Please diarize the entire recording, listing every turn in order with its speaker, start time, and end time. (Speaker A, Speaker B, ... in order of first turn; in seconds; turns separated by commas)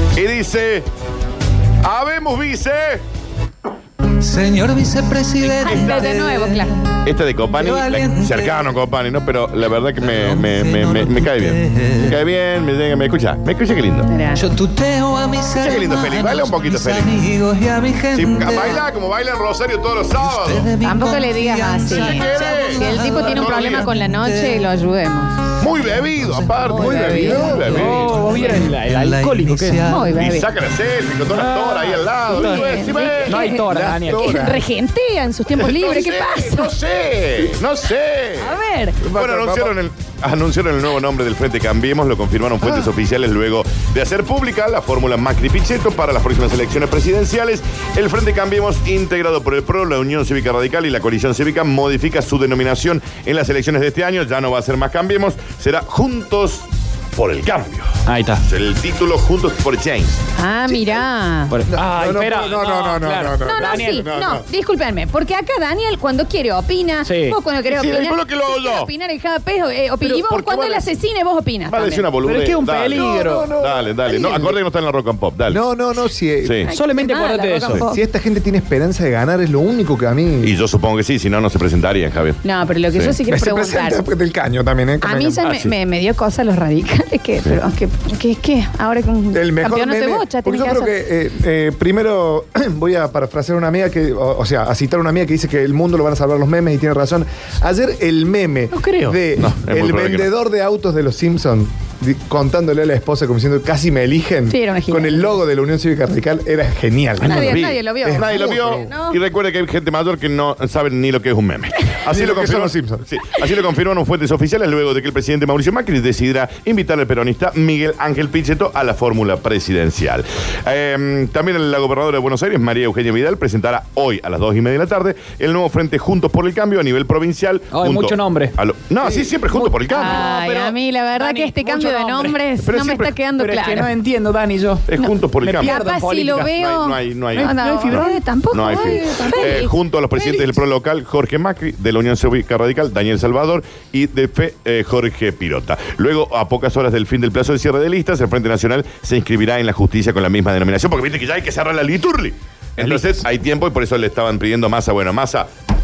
Speaker A: 0.1-0.9, Speaker A: 1.8-3.0, Speaker B: 4.2-6.7, Speaker A: 5.4-6.1, Speaker C: 5.7-6.8, Speaker A: 7.0-14.1, Speaker B: 7.5-8.7, Speaker B: 10.0-12.2, Speaker C: 14.1-14.4, Speaker B: 14.3-18.9, Speaker A: 15.6-17.1, Speaker A: 18.1-20.7, Speaker B: 20.2-24.7, Speaker C: 20.8-25.4, Speaker A: 22.0-23.9, Speaker A: 25.6-28.1, Speaker B: 25.9-30.3, Speaker C: 26.6-27.8, Speaker D: 26.7-28.1, Speaker E: 27.6-29.9, Speaker C: 29.8-30.5, Speaker A: 30.1-33.5, Speaker E: 31.3-34.5, Speaker C: 32.3-36.7, Speaker D: 33.7-34.6, Speaker A: 35.5-38.6, Speaker C: 38.4-39.0, Speaker D: 39.0-39.8, Speaker A: 39.1-60.2, Speaker D: 42.6-42.9, Speaker E: 58.1-58.4, Speaker C: 60.4-61.5, Speaker D: 60.7-61.0, Speaker E: 61.5-64.1, Speaker D: 61.7-64.5, Speaker C: 63.4-72.1, Speaker E: 67.0-67.4, Speaker A: 67.7-68.9, Speaker A: 70.0-70.9, Speaker A: 71.7-75.6, Speaker E: 72.2-73.5, Speaker D: 73.0-74.6, Speaker C: 73.0-73.3, Speaker D: 75.5-76.6, Speaker A: 76.4-76.7, Speaker C: 76.7-78.0, Speaker E: 76.7-77.9, Speaker D: 77.9-80.5, Speaker A: 80.4-83.2, Speaker C: 82.4-84.0, Speaker D: 83.3-85.5, Speaker C: 85.0-90.9, Speaker A: 85.5-85.7, Speaker D: 89.3-108.9, Speaker E: 98.7-99.2, Speaker A: 99.4-100.3, Speaker C: 104.5-105.4, Speaker A: 107.2-130.2, Speaker C: 107.2-109.2, Speaker D: 112.1-113.1, Speaker E: 127.7-128.6, Speaker C: 129.5-133.9, Speaker E: 129.9-132.4, Speaker A: 132.6-133.1, Speaker E: 133.4-134.9, Speaker A: 134.9-135.8, Speaker C: 135.0-140.4, Speaker E: 135.4-136.5, Speaker A: 136.4-155.5, Speaker E: 137.4-139.6, Speaker E: 152.8-153.2